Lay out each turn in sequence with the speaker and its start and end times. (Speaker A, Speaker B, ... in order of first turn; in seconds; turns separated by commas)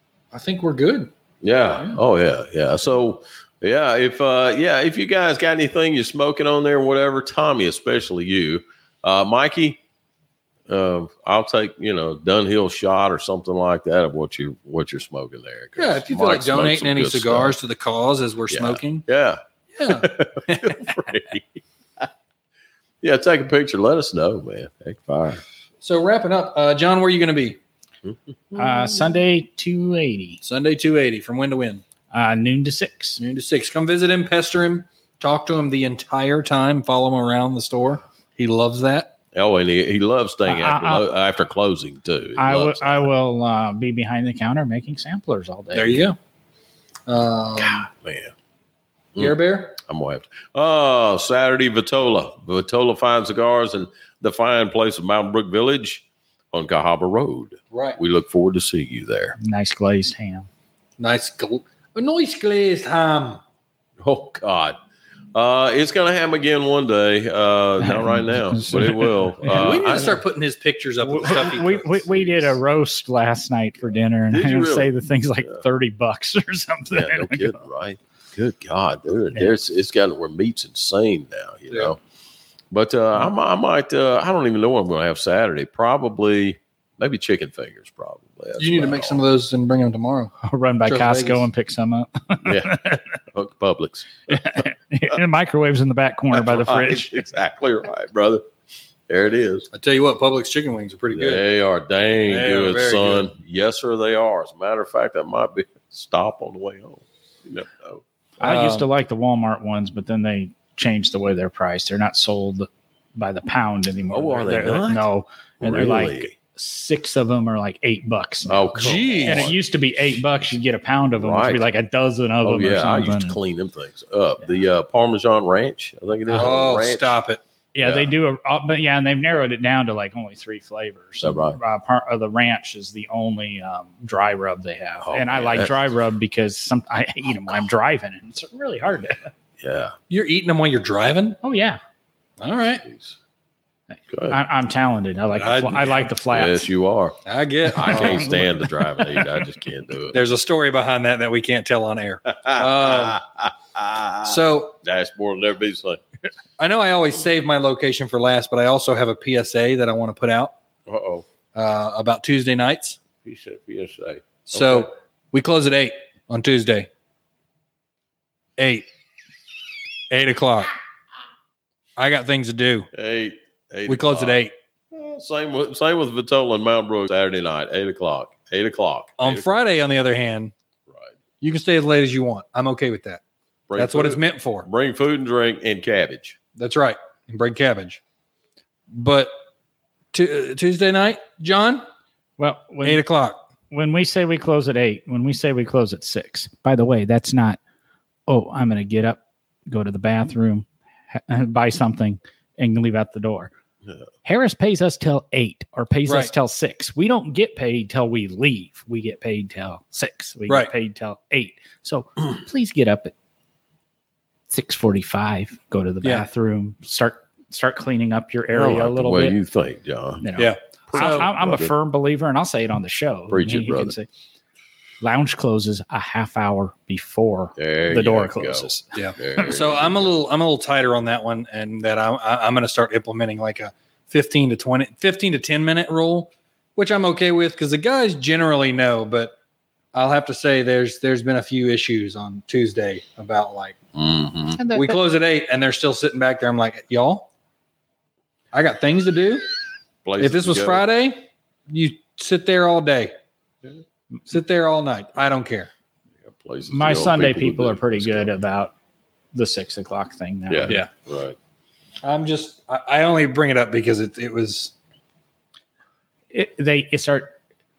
Speaker A: 0.3-1.1, Speaker B: 1.4-9.8, Speaker B: 10.7-17.6, Speaker A: 15.8-19.0, Speaker B: 18.5-22.1, Speaker A: 19.7-20.9, Speaker B: 23.0-25.4, Speaker A: 25.8-27.6, Speaker B: 28.0-29.1, Speaker C: 28.5-30.4, Speaker A: 30.4-31.8, Speaker C: 32.1-33.2, Speaker A: 33.2-39.1, Speaker B: 39.3-43.1, Speaker C: 40.5-41.1, Speaker C: 42.4-46.1, Speaker A: 45.7-46.1, Speaker A: 47.1-47.9, Speaker B: 47.6-48.3, Speaker B: 49.1-59.4, Speaker A: 49.2-49.8, Speaker A: 57.7-58.0, Speaker C: 59.4-60.5, Speaker A: 61.0-63.4, Speaker B: 64.0-64.8, Speaker B: 65.3-70.2, Speaker C: 67.8-69.8, Speaker A: 69.5-72.2, Speaker C: 71.0-77.6, Speaker B: 74.3-74.9, Speaker B: 76.9-82.0, Speaker B: 82.7-89.2, Speaker A: 88.6-90.3, Speaker C: 90.4-93.0, Speaker A: 90.8-91.5, Speaker B: 92.4-92.8, Speaker B: 93.3-94.6, Speaker C: 94.3-97.2, Speaker B: 96.3-98.4, Speaker B: 99.1-99.7, Speaker A: 99.7-101.4, Speaker B: 101.1-108.0, Speaker A: 102.3-103.3, Speaker A: 108.4-108.9, Speaker C: 108.4-123.4, Speaker B: 114.1-115.0, Speaker B: 115.6-116.3, Speaker B: 118.5-119.5, Speaker A: 118.7-119.5, Speaker B: 121.2-121.7, Speaker B: 122.4-127.1, Speaker A: 126.3-127.4, Speaker C: 127.7-139.3, Speaker B: 127.8-128.1, Speaker B: 131.2-131.6, Speaker B: 135.0-135.8, Speaker B: 139.6-139.9, Speaker A: 140.1-141.4, Speaker C: 141.4-141.8, Speaker A: 142.4-142.8, Speaker B: 142.9-143.2, Speaker C: 144.3-146.7, Speaker A: 145.3-145.9, Speaker B: 146.3-147.2, Speaker A: 147.2-148.3, Speaker B: 147.7-150.2, Speaker C: 147.8-149.3, Speaker A: 150.1-153.2, Speaker B: 152.3-156.0, Speaker A: 154.2-154.8, Speaker A: 156.6-160.5, Speaker B: 160.9-161.2, Speaker A: 161.5-163.0, Speaker B: 163.2-164.9, Speaker A: 164.5-166.9, Speaker A: 168.6-168.9, Speaker A: 170.1-170.7, Speaker A: 172.0-172.9, Speaker B: 172.9-174.4, Speaker A: 173.9-174.5, Speaker B: 174.9-179.4, Speaker A: 179.2-180.5, Speaker A: 181.4-183.2, Speaker B: 183.7-186.4, Speaker A: 183.8-184.7, Speaker A: 186.6-188.0, Speaker A: 188.9-189.3, Speaker A: 190.1-191.8, Speaker C: 192.4-193.0, Speaker A: 192.8-193.4, Speaker C: 193.7-197.6, Speaker C: 198.3-203.5, Speaker C: 204.2-213.1, Speaker C: 214.5-219.4, Speaker B: 218.5-220.2, Speaker C: 220.2-224.1, Speaker A: 220.4-221.2, Speaker B: 220.9-221.7, Speaker B: 223.3-223.9, Speaker C: 225.0-229.4, Speaker B: 227.6-230.1, Speaker A: 228.9-239.3, Speaker A: 239.9-243.8, Speaker B: 243.9-244.7, Speaker A: 244.6-247.3, Speaker A: 248.5-249.4, Speaker B: 250.0-250.8, Speaker A: 250.2-253.1, Speaker A: 254.3-255.7, Speaker B: 256.3-258.3, Speaker C: 256.7-258.7, Speaker C: 259.3-260.8, Speaker B: 260.5-261.4, Speaker A: 262.0-264.7, Speaker C: 266.3-267.3